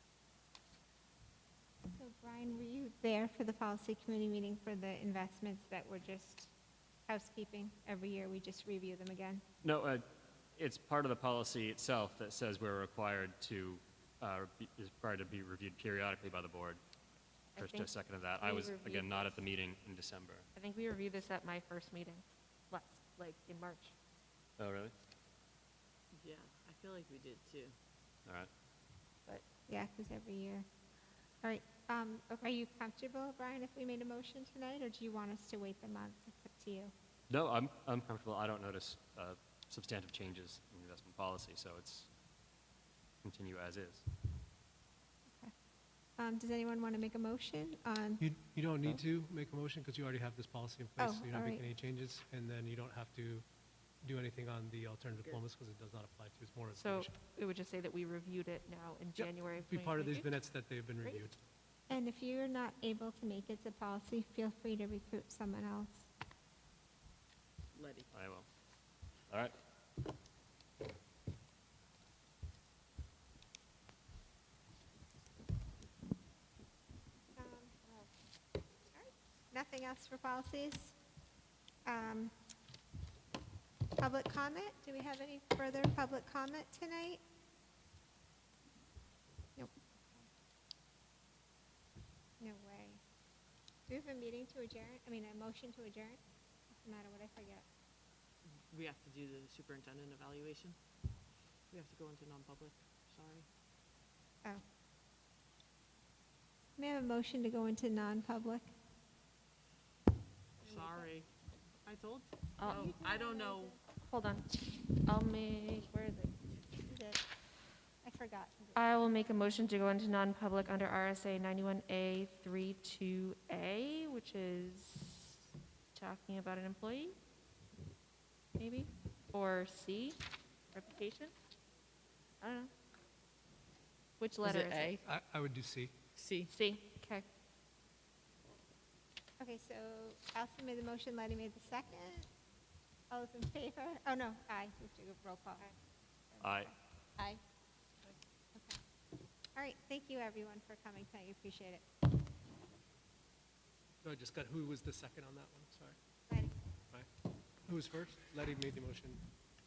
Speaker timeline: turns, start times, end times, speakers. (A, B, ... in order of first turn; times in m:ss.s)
0:01.9-0:06.5 A
0:07.1-0:09.4 A
0:09.6-0:10.0 B
0:10.6-0:16.8 B
0:17.5-0:19.5 C
0:17.6-0:20.4 B
0:20.5-0:23.9 C
0:24.6-0:24.9 B
0:26.2-0:27.7 D
0:29.6-0:30.6 A
0:31.4-0:36.9 A
0:37.3-0:42.1 B
0:43.2-0:44.0 B
0:46.2-0:48.2 A
0:48.2-0:53.4 E
0:51.0-0:51.6 A
0:54.0-0:57.1 E
0:56.7-1:00.3 C
0:59.2-1:01.4 E
1:01.9-1:06.1 A
1:07.7-1:08.1 D
1:08.1-1:08.5 B
1:17.3-1:17.8 A
1:18.9-1:20.9 A
1:21.8-1:22.3 A
1:24.0-1:27.2 A
1:29.6-1:30.2 A
1:32.4-1:33.0 A
1:33.9-1:36.2 A
1:36.8-1:37.6 A
1:38.7-1:40.8 D
1:41.7-1:43.5 D
1:46.8-1:48.7 A
1:50.6-1:51.3 D
1:50.7-1:51.0 A
1:51.8-1:53.8 D
1:52.6-1:53.0 C
1:52.6-1:53.8 A
1:54.0-1:56.1 C
1:56.0-1:57.2 A
1:58.0-1:58.8 A
1:58.8-2:05.4 C
2:05.9-2:07.2 C
2:08.6-2:10.2 C
2:10.7-2:11.3 C
2:12.4-2:12.7 C
2:14.2-2:15.0 C
2:14.4-2:14.9 D
2:15.0-2:16.0 E
2:16.2-2:16.5 D
2:16.5-2:17.2 C
2:19.4-2:22.3 A
2:23.1-2:25.7 A
2:26.3-2:27.4 A
2:26.4-2:26.7 B
2:29.6-2:31.8 A
2:34.0-2:36.0 E
2:36.3-2:36.5 A
2:37.7-2:39.2 E